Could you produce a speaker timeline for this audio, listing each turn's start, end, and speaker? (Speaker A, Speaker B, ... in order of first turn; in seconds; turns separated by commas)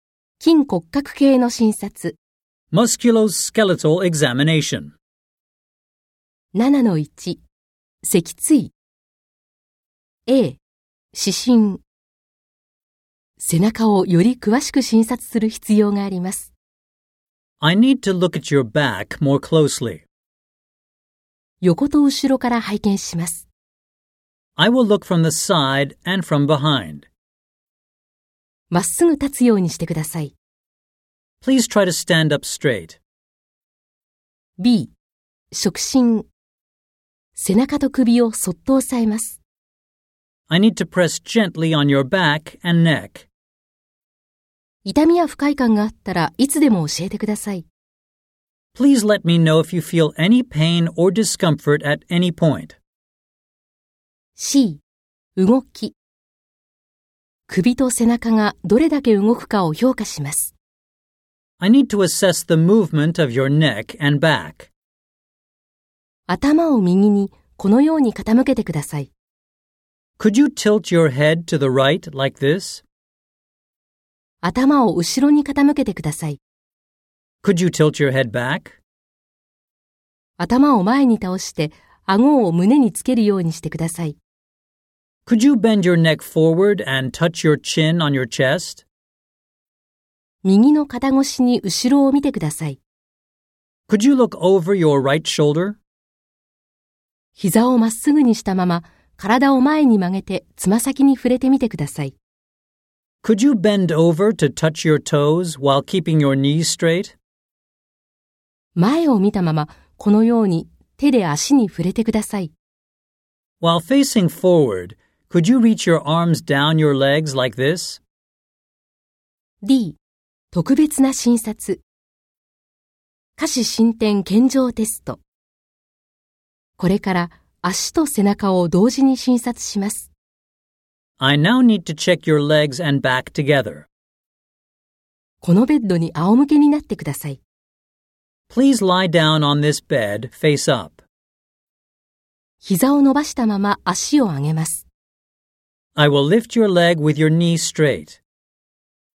Speaker A: 0.4-2.2, Speaker B: 2.7-5.0, Speaker A: 6.5-7.4, Speaker A: 8.0-8.7, Speaker A: 10.3-10.6, Speaker A: 11.1-11.8, Speaker A: 13.4-16.5, Speaker B: 17.6-20.0, Speaker A: 21.6-23.5, Speaker B: 24.6-27.1, Speaker A: 28.7-30.3, Speaker B: 31.4-33.0, Speaker A: 34.6-34.9, Speaker A: 35.5-36.3, Speaker A: 37.3-39.4, Speaker B: 40.5-43.3, Speaker A: 44.8-47.6, Speaker B: 48.7-52.8, Speaker A: 54.4-54.8, Speaker A: 55.4-55.9, Speaker A: 57.5-60.5, Speaker B: 61.6-64.7, Speaker A: 66.3-69.1, Speaker B: 70.2-72.8, Speaker A: 74.4-76.4, Speaker B: 77.4-78.8, Speaker A: 80.4-84.2, Speaker B: 85.2-88.8, Speaker A: 90.4-92.8, Speaker B: 93.9-95.8, Speaker A: 97.4-102.1, Speaker B: 103.2-107.2, Speaker A: 108.8-112.5, Speaker B: 113.6-118.0, Speaker A: 119.6-120.0, Speaker A: 120.5-121.8, Speaker A: 123.4-125.2, Speaker A: 126.8-130.1, Speaker B: 131.2-133.9, Speaker A: 135.4-137.4, Speaker B: 138.5-141.0, Speaker A: 142.6-144.9, Speaker B: 145.9-148.2